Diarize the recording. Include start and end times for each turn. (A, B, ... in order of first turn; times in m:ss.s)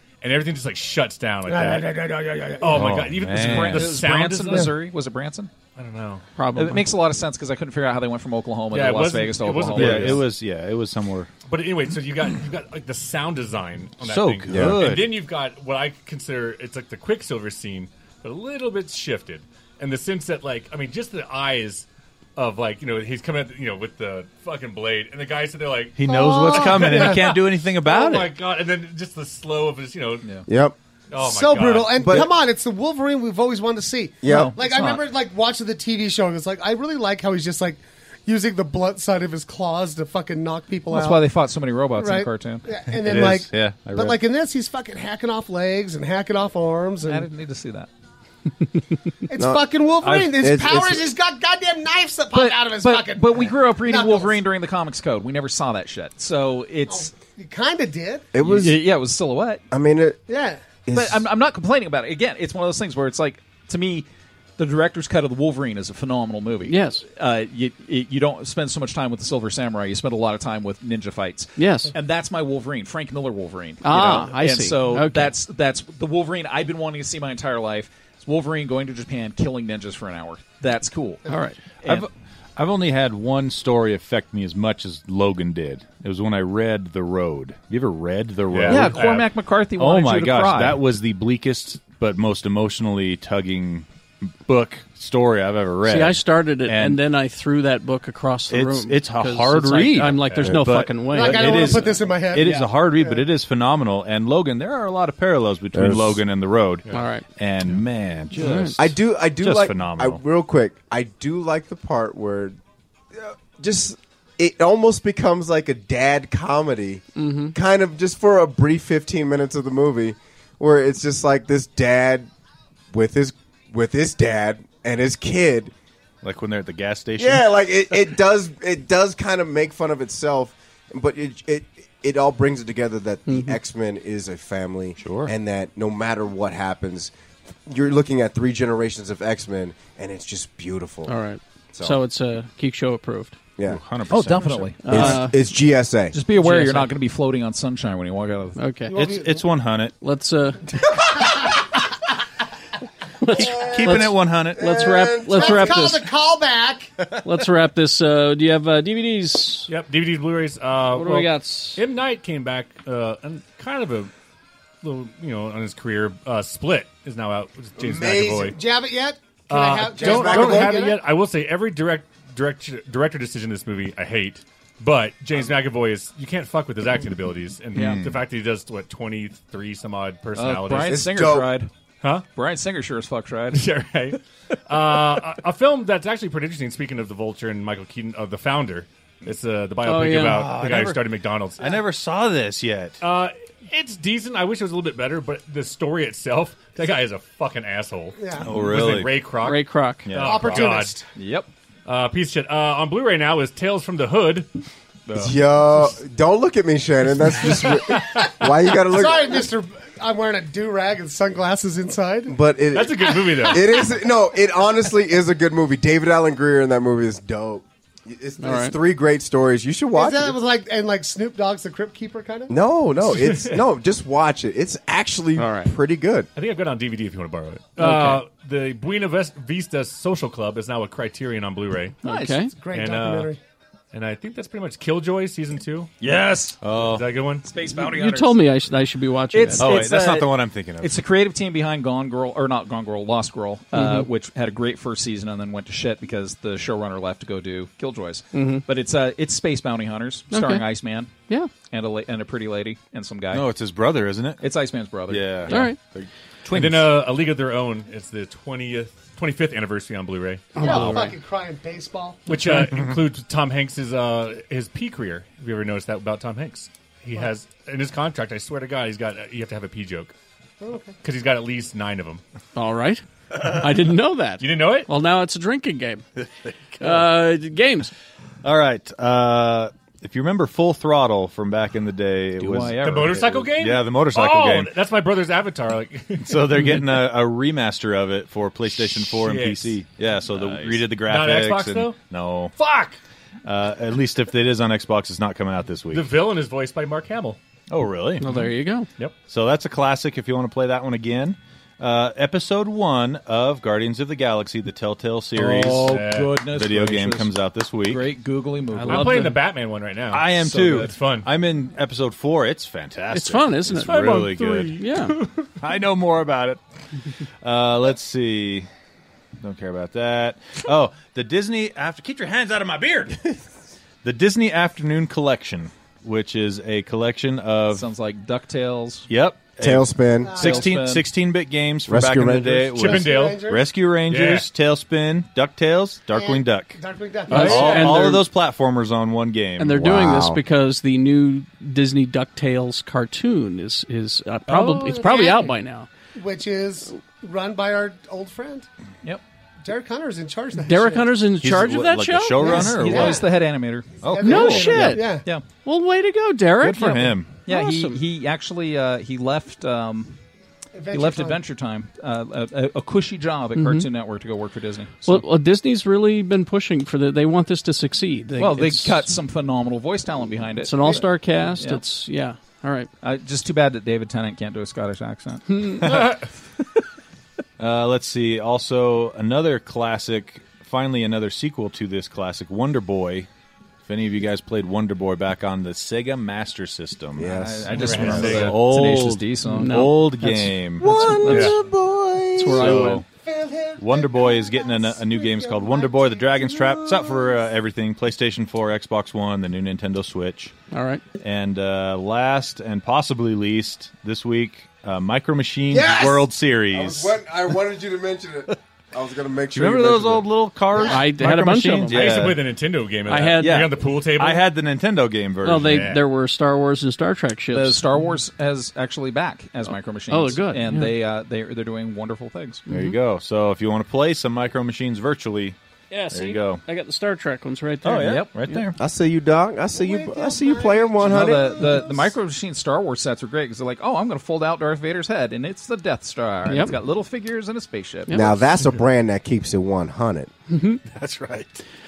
0:00.2-0:01.9 A
0:01.5-0:03.0 B
0:02.6-0:04.8 A
0:02.7-0:04.0 C
0:03.4-0:05.5 D
0:05.8-0:06.2 A
0:06.4-0:06.9 E
0:06.6-0:10.2 D
0:08.7-0:10.3 A
0:09.8-0:11.3 C
0:11.5-0:30.3 A
0:14.0-0:15.2 C
0:14.5-0:14.8 F
0:26.0-0:28.4 C
0:26.1-0:27.4 B
0:30.5-0:30.8 F
0:31.1-0:32.2 A
0:31.2-0:41.3 B
0:32.0-0:32.3 F
0:34.2-0:34.5 F
0:34.2-0:35.0 D
0:40.9-0:42.7 D
0:42.0-0:47.3 B
0:43.0-0:44.2 C
0:47.0-0:47.9 D
0:49.3-0:54.4 B
0:49.4-0:51.1 F
0:52.3-0:57.1 D
0:56.9-0:58.3 B
0:58.3-0:58.8 F
0:58.4-0:59.6 D
0:59.7-1:00.2 F
1:00.3-1:00.8 B
1:00.9-1:01.2 F
1:00.9-1:04.1 D
1:04.6-1:21.2 D
1:06.7-1:07.0 E
1:11.6-1:11.9 E
1:13.8-1:15.3 E
1:21.3-1:21.6 E
1:21.8-1:22.1 D
1:21.8-1:29.0 C
1:28.5-1:29.3 A
1:28.7-1:30.8 D
1:29.8-1:37.0 C
1:35.8-1:42.6 E
1:38.5-1:50.2 C
1:41.1-1:43.2 B
1:45.7-1:46.2 F
1:46.9-1:47.2 E
1:48.4-1:48.7 E
1:48.8-1:52.6 F
1:53.1-2:02.3 F
1:57.2-1:57.5 E
2:02.9-2:05.7 F
2:06.2-2:08.0 C
2:07.2-2:17.1 F
2:13.3-2:13.6 E
2:15.0-2:15.3 C
2:17.7-2:21.1 F
2:21.1-2:23.4 E
2:21.7-2:22.0 F
2:23.7-2:24.7 C
2:24.1-2:25.2 D
2:24.8-2:25.4 E
2:24.9-2:26.2 F
2:26.1-2:28.6 D
2:26.4-2:26.9 E
2:28.6-2:29.0 E
2:28.9-2:29.4 B
2:28.9-2:29.9 C
2:30.0-2:30.6 E
2:33.2-2:36.1 E
2:33.5-2:34.6 C
2:34.6-2:35.8 F
2:34.7-2:36.9 B
2:37.2-2:39.7 E
2:39.7-2:44.1 A
2:40.9-2:41.8 E
2:44.8-2:48.6 A
2:47.8-2:48.6 F
2:48.5-2:51.0 B
2:49.5-3:01.1 A
2:49.9-2:50.8 F
2:57.7-2:58.2 C
3:00.4-3:01.7 D
3:00.8-3:01.5 F
3:02.0-3:02.3 A
3:02.3-3:03.6 D
3:03.5-3:11.8 A
3:09.8-3:10.4 E
3:10.2-3:13.0 C
3:13.0-3:21.0 A
3:18.2-3:18.8 B
3:18.4-3:19.2 C
3:19.4-3:20.1 E
3:20.1-3:20.7 C
3:20.2-3:21.1 B
3:21.1-3:21.5 D
3:21.9-3:24.5 A
3:25.2-3:29.5 F
3:27.4-3:28.2 A
3:28.0-3:28.3 B
3:28.9-3:32.4 B
3:32.3-3:40.4 F
3:32.7-3:33.9 A
3:38.4-3:38.8 E
3:39.9-3:42.6 B
3:42.5-3:46.3 F
3:43.1-3:43.7 A
3:45.4-3:45.7 E
3:46.4-3:52.0 A
3:47.8-3:48.2 E
3:52.0-3:52.5 E
3:52.1-3:52.4 D
3:52.5-3:53.4 B
3:52.7-3:53.3 A
3:53.9-3:55.9 A
3:56.0-3:56.6 D
3:56.6-3:57.1 C
3:56.8-3:57.5 A
3:57.4-3:58.4 D
3:57.8-3:59.9 E
3:59.3-4:13.5 D
3:59.6-4:01.0 C
4:03.7-4:04.1 E
4:08.3-4:08.6 E
4:10.3-4:10.7 E
4:13.3-4:14.4 C
4:14.4-4:15.8 D
4:15.1-4:16.9 C
4:15.5-4:15.8 E
4:16.5-4:20.6 A
4:20.6-4:22.3 B
4:20.6-4:21.2 D
4:22.3-4:30.1 A
4:30.6-4:31.0 B
4:31.0-4:32.2 A
4:32.6-4:36.0 E
4:34.4-4:34.9 A
4:36.8-4:37.0 C
4:36.8-4:37.9 E
4:38.4-4:44.8 C
4:42.4-4:43.5 D
4:42.8-4:46.5 A
4:46.2-4:52.6 C
4:48.8-4:49.8 A
4:50.3-4:50.8 D
4:50.9-4:52.0 A
4:52.6-4:53.0 A
4:53.4-4:56.1 C
4:55.9-4:57.4 A
4:57.7-4:58.3 C
4:58.2-4:58.9 E
4:59.3-5:08.1 C
5:05.4-5:09.4 D
5:05.8-5:06.4 A
5:08.8-5:11.3 A
5:08.8-5:09.2 E
5:08.9-5:09.2 C
5:10.1-5:14.8 C
5:10.4-5:10.9 D
5:13.1-5:15.2 E
5:13.9-5:15.5 A
5:15.6-5:16.6 C
5:17.4-5:18.7 C
5:19.4-5:23.3 C
5:24.0-5:27.8 C
5:27.7-5:29.1 D
5:29.1-5:39.8 C
5:29.6-5:30.4 F
5:30.2-5:30.7 B
5:30.4-5:31.1 D
5:31.9-5:33.0 F
5:32.8-5:33.4 A
5:32.8-5:33.7 B
5:34.1-5:34.5 A
5:36.1-5:37.8 B
5:37.3-5:38.3 E
5:37.3-5:37.8 A
5:39.6-5:45.9 E
5:39.7-5:40.4 F
5:44.5-5:45.0 A
5:44.8-5:45.6 B
5:46.2-5:48.7 B
5:49.6-5:51.1 B
5:50.6-5:52.6 E
5:51.4-5:53.2 C
5:52.4-5:55.3 B
5:52.4-5:55.4 D
5:54.0-5:55.0 C
5:54.2-5:58.0 E
5:56.6-5:57.3 C
5:57.5-6:00.2 D
6:00.7-6:01.4 B
6:00.9-6:05.2 D
6:03.6-6:03.9 E
6:05.0-6:09.1 E
6:08.4-6:11.8 D
6:10.6-6:12.9 E
6:10.8-6:11.1 B
6:13.0-6:16.1 D
6:15.6-6:15.8 E
6:17.6-6:23.3 C
6:23.8-6:31.5 C
6:27.2-6:28.3 F
6:27.6-6:29.8 D
6:27.7-6:28.6 A
6:29.5-6:31.6 E
6:30.8-6:32.9 F
6:31.3-6:31.6 A
6:32.4-6:33.0 E
6:32.4-6:33.0 C
6:33.1-6:37.2 B
6:33.8-6:40.5 C
6:36.8-6:37.2 F
6:40.7-6:41.0 E
6:41.2-6:47.2 C
6:45.7-6:51.0 F
6:49.5-6:52.5 C
6:50.9-6:52.2 E
6:51.9-6:54.4 A
6:53.1-6:53.6 E
6:53.4-6:56.0 C
6:55.4-6:57.8 E
6:55.6-6:56.0 A
6:57.5-7:02.6 D
7:00.1-7:00.9 E
7:02.7-7:03.0 E
7:02.7-7:05.6 C
7:05.9-7:08.6 E
7:06.1-7:06.6 C
7:07.8-7:08.8 C
7:08.0-7:08.4 D
7:08.8-7:11.8 F
7:09.7-7:11.9 B
7:11.0-7:18.5 D
7:16.4-7:16.8 E
7:18.1-7:20.3 F
7:20.5-7:20.8 E
7:20.9-7:21.6 C